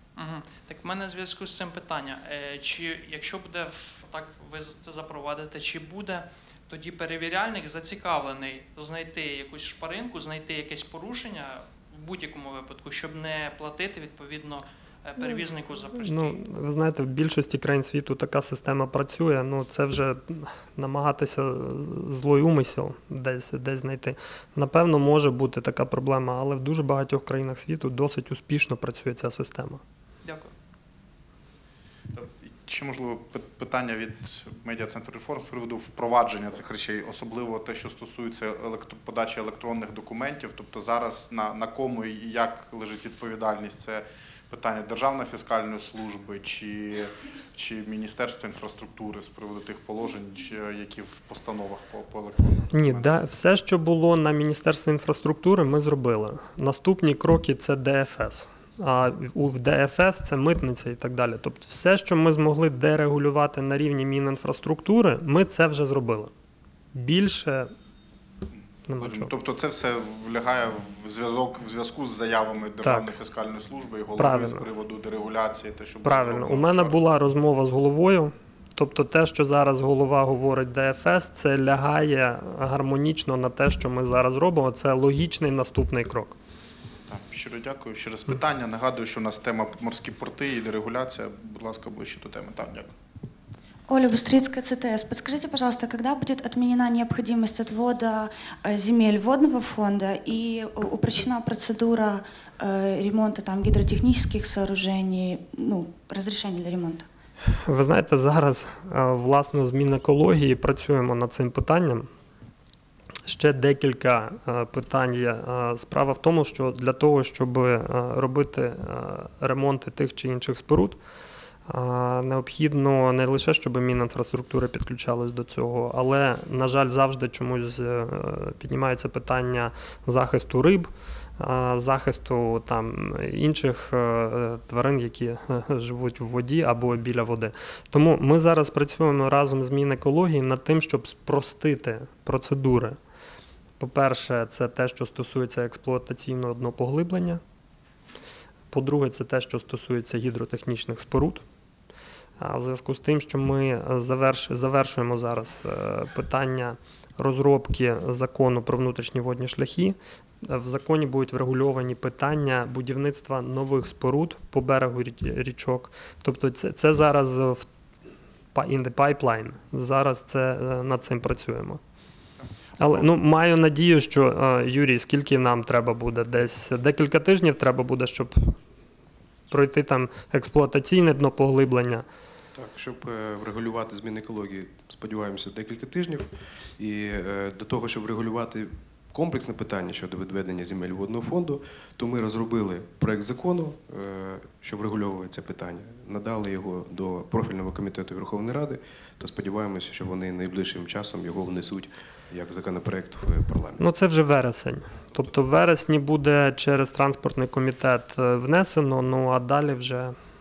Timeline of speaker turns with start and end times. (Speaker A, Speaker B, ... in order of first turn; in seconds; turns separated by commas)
Speaker A: 0.2-16.4, Speaker B: 16.0-29.8, Speaker A: 30.2-30.5, Speaker C: 32.1-53.1, Speaker B: 52.7-66.3, Speaker B: 66.9-67.7, Speaker B: 68.9-69.3, Speaker C: 69.0-77.0, Speaker B: 72.8-73.1, Speaker B: 74.2-74.7, Speaker B: 76.0-86.4, Speaker C: 87.1-92.9, Speaker D: 93.9-107.1, Speaker B: 107.7-112.1, Speaker B: 113.2-121.0, Speaker B: 121.7-143.0, Speaker B: 143.8-147.4, Speaker B: 148.7-151.4, Speaker B: 152.4-167.7, Speaker B: 168.5-171.8, Speaker B: 172.8-178.6, Speaker B: 179.5-182.1, Speaker E: 182.5-203.8, Speaker B: 203.8-210.1